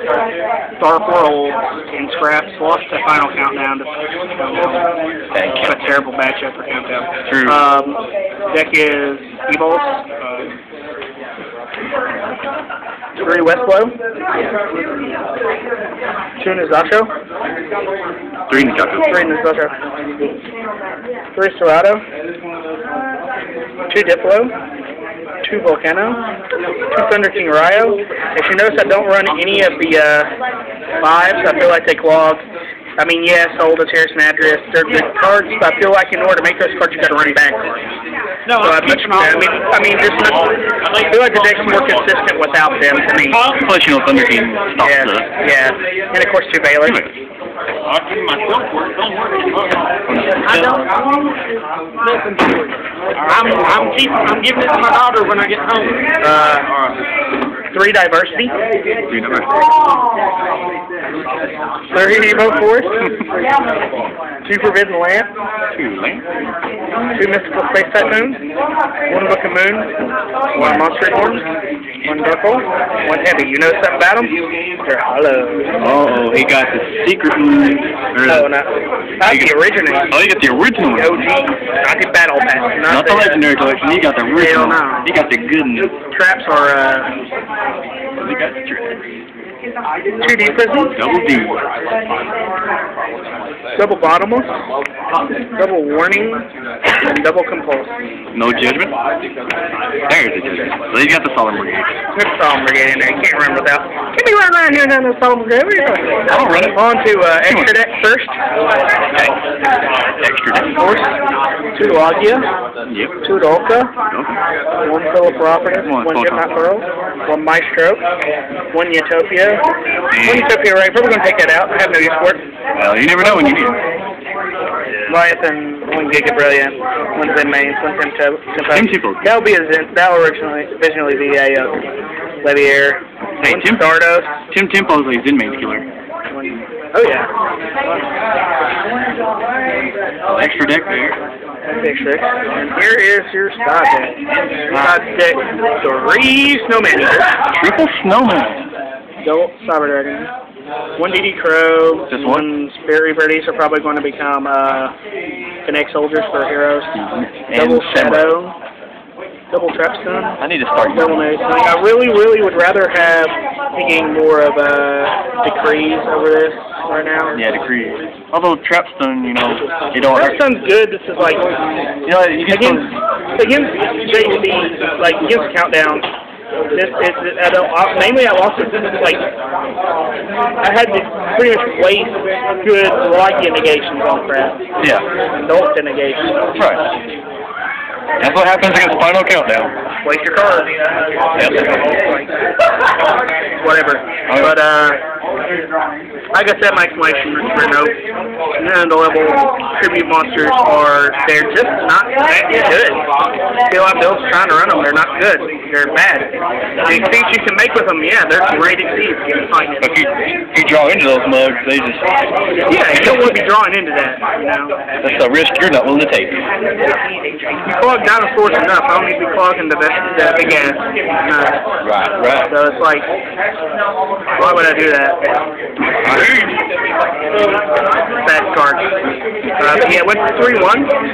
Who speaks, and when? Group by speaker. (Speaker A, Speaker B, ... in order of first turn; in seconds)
Speaker A: 0.8-4.8, 5.6-10.1, 13.2-13.9, 16.4-17.1, 18.6-19.8, 21.4-22.0, 23.9-24.5, 25.4-26.2, 26.9-30.3, 31.0-32.4, 33.0-37.6, 38.6-43.4, 44.8-47.0, 56.2-56.7, 57.7-58.5, 61.9-63.0, 64.5-65.3, 67.2-68.4, 69.1-70.0, 70.5-71.5, 72.0-75.7, 78.2-80.1, 80.9-83.4, 84.3-85.1, 85.8-87.1, 90.2-90.9, 93.8-94.5, 95.5-96.5, 97.0-97.9, 102.2-108.4, 110.6-111.2, 111.8-112.5, 113.2-113.9, 114.8-118.0, 118.7-119.6, 120.2-122.4, 125.1-131.9, 132.4-134.3, 136.3-137.3, 141.7-144.2, 144.7-147.3, 149.2-150.3, 151.0-155.0, 155.7-157.0, 157.5-158.6, 159.5-167.4, 170.1-171.5, 172.5-176.1, 176.7-179.3, 180.6-184.6, 185.4-186.4, 190.0-190.7, 191.4-192.3, 193.6-195.0, 196.3-197.9, 198.5-203.0, 203.7-210.0, 212.7-214.8, 217.7-221.6, 222.5-223.1, 224.4-225.3, 228.2-228.9, 229.6-230.9
Speaker B: 5.3-5.9, 7.3-7.6, 18.5-19.2, 43.3-45.3, 46.8-47.1, 50.1-50.9, 59.1-59.7, 62.1-62.5, 65.7-66.2, 70.6-70.8, 75.8-78.5, 79.2-79.5, 80.1-81.4, 82.9-85.9, 88.2-89.0, 91.0-91.6, 98.3-99.0, 100.1-101.9, 106.3-106.8, 107.5-107.7, 110.2-110.8, 112.9-113.1, 115.8-116.5, 120.1-120.5, 122.8-123.8, 128.7-129.3, 133.4-133.9, 134.5-135.9, 140.3-141.2, 144.7-145.0, 147.5-148.7, 152.1-152.4, 156.9-158.3, 160.4-161.2, 167.3-170.4, 172.1-173.0, 184.8-185.1, 186.6-186.8, 188.2-189.7, 191.4-191.8, 194.3-194.6, 209.8-213.4, 215.0-216.4, 221.8-222.5, 226.0-226.6
Speaker C: 38.5-39.6, 40.3-42.0, 47.9-49.9, 50.4-50.9, 52.0-56.0